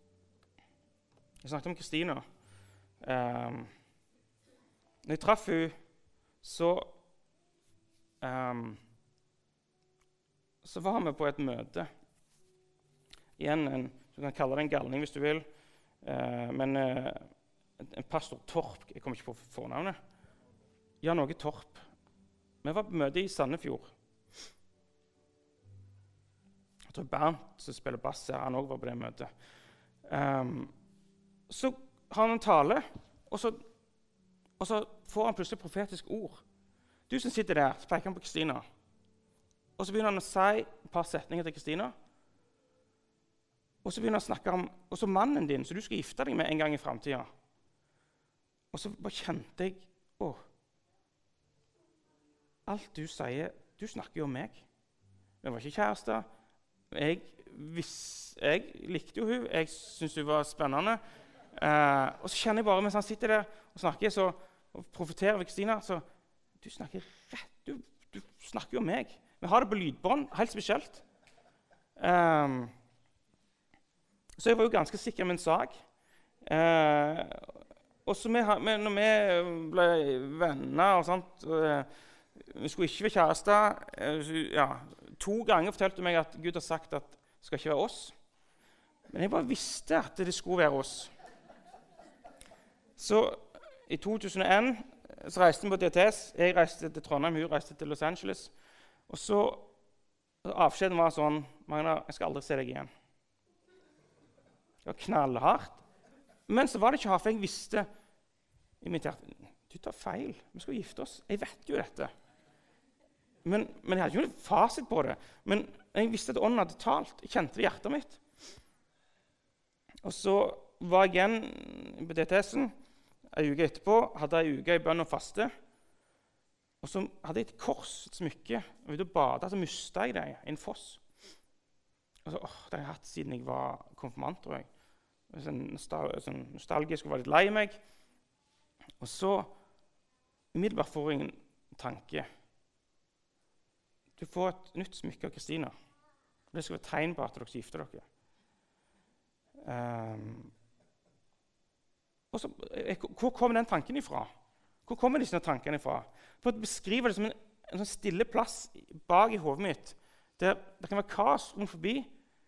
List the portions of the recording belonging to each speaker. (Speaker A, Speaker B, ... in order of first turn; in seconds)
Speaker A: 1.4-2.2, 3.0-3.7, 5.0-5.7, 6.4-7.0, 8.2-8.8, 10.6-11.9, 13.4-15.4, 16.0-17.3, 17.8-20.0, 21.0-21.9, 22.6-23.9, 26.9-29.3, 30.1-30.7, 31.5-33.6, 34.6-36.4, 37.1-38.6, 39.8-41.9, 43.8-47.3, 48.7-50.4, 52.6-54.6, 55.4-56.3, 56.9-61.0, 61.5-66.0, 66.6-71.0, 72.0-72.7, 74.4-75.8, 76.4-88.1, 89.1-91.1, 93.0-98.5, 99.1-99.7, 100.4-102.9, 104.8-105.8, 106.5-107.9, 108.8-112.1, 113.4-118.2, 120.0-122.7, 123.3-125.5, 126.8-131.0, 132.2-134.7, 135.3-137.8, 139.0-139.6, 140.5-142.3, 144.2-145.7, 146.5-148.1, 149.6-150.5, 152.3-154.3, 154.8-162.1